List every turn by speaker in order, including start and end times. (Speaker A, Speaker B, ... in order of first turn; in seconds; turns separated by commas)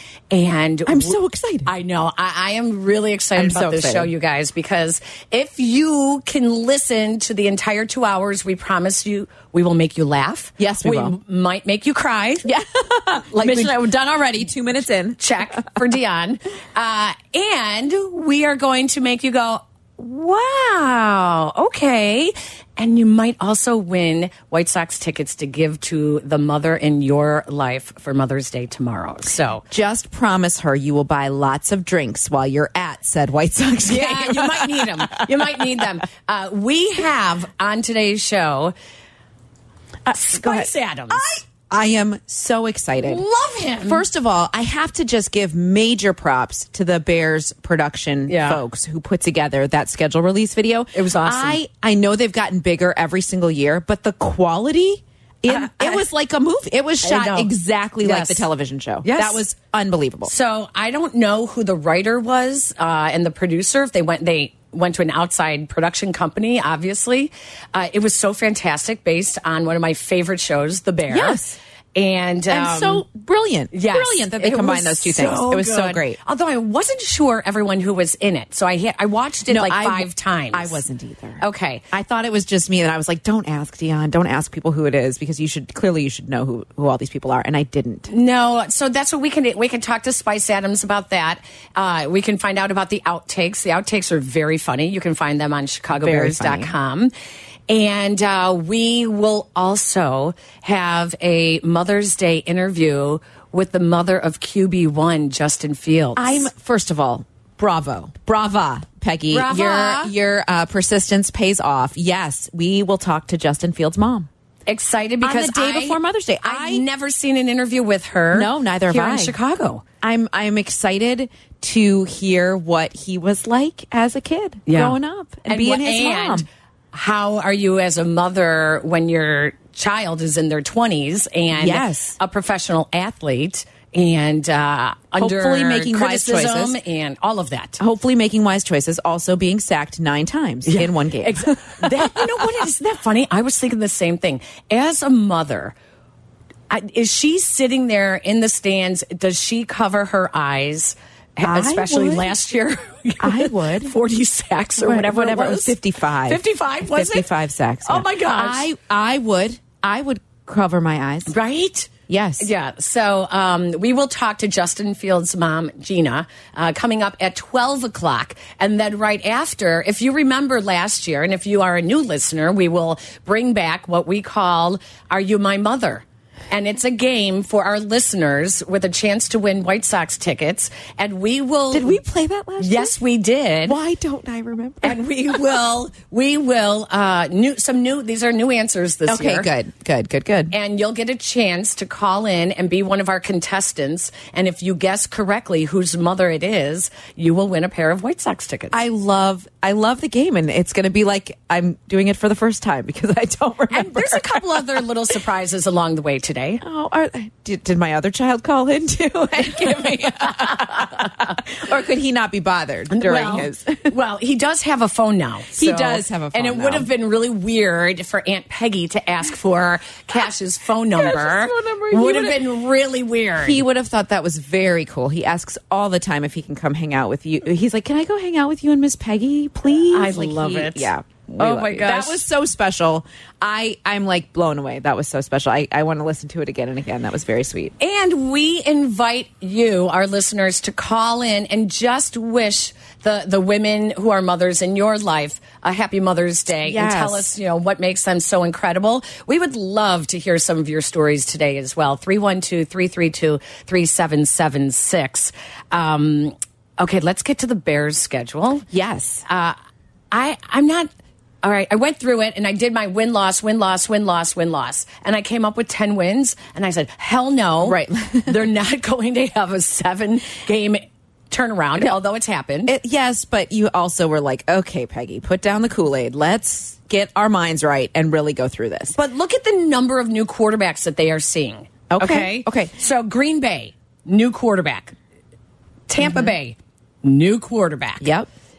Speaker A: 0.3-12.5, Speaker B: 0.9-1.7, Speaker B: 3.4-4.1, Speaker B: 10.6-11.2, Speaker B: 12.4-15.6, Speaker A: 13.3-14.5, Speaker A: 15.2-29.6, Speaker B: 29.7-35.6, Speaker A: 33.8-38.7, Speaker B: 40.0-43.2, Speaker A: 40.1-41.4, Speaker A: 43.0-44.0, Speaker B: 43.9-60.3, Speaker A: 48.3-48.6, Speaker A: 50.9-51.6, Speaker A: 55.5-56.0, Speaker A: 57.0-58.5, Speaker A: 59.0-59.4, Speaker A: 60.2-71.4, Speaker B: 71.1-71.6, Speaker A: 71.9-73.0, Speaker B: 72.5-76.2, Speaker A: 73.7-80.8, Speaker B: 79.5-88.1, Speaker A: 81.4-81.8, Speaker A: 88.1-97.1, Speaker B: 95.9-96.7, Speaker A: 97.7-106.5, Speaker B: 106.2-114.3, Speaker A: 109.3-110.1, Speaker A: 114.7-119.8, Speaker B: 115.2-116.8, Speaker B: 118.3-119.3, Speaker B: 120.0-126.5, Speaker A: 124.7-137.8, Speaker B: 131.5-132.2, Speaker B: 135.2-136.8, Speaker B: 137.8-142.5, Speaker A: 140.6-145.7, Speaker A: 146.7-157.3, Speaker B: 151.4-152.3, Speaker B: 153.2-153.9, Speaker B: 154.8-161.3, Speaker A: 157.8-158.7, Speaker A: 161.3-182.0, Speaker B: 162.1-162.5, Speaker B: 181.7-182.9, Speaker A: 182.6-183.8, Speaker B: 183.6-185.5, Speaker A: 184.8-189.5, Speaker B: 189.1-190.5, Speaker A: 190.5-198.8, Speaker B: 198.7-204.8, Speaker A: 203.7-206.6, Speaker B: 206.6-213.9, Speaker A: 210.2-210.9, Speaker A: 212.9-223.6, Speaker B: 215.5-216.9, Speaker B: 220.9-222.4, Speaker B: 223.4-237.7, Speaker A: 229.9-232.2, Speaker A: 237.8-258.6, Speaker B: 246.6-247.3, Speaker B: 258.7-259.2, Speaker A: 259.2-259.6, Speaker A: 260.1-260.9, Speaker A: 261.4-272.7, Speaker B: 267.6-268.4, Speaker B: 272.6-278.9, Speaker A: 278.9-284.9, Speaker B: 281.9-282.7, Speaker A: 285.9-288.1, Speaker B: 286.0-286.3, Speaker B: 288.0-288.3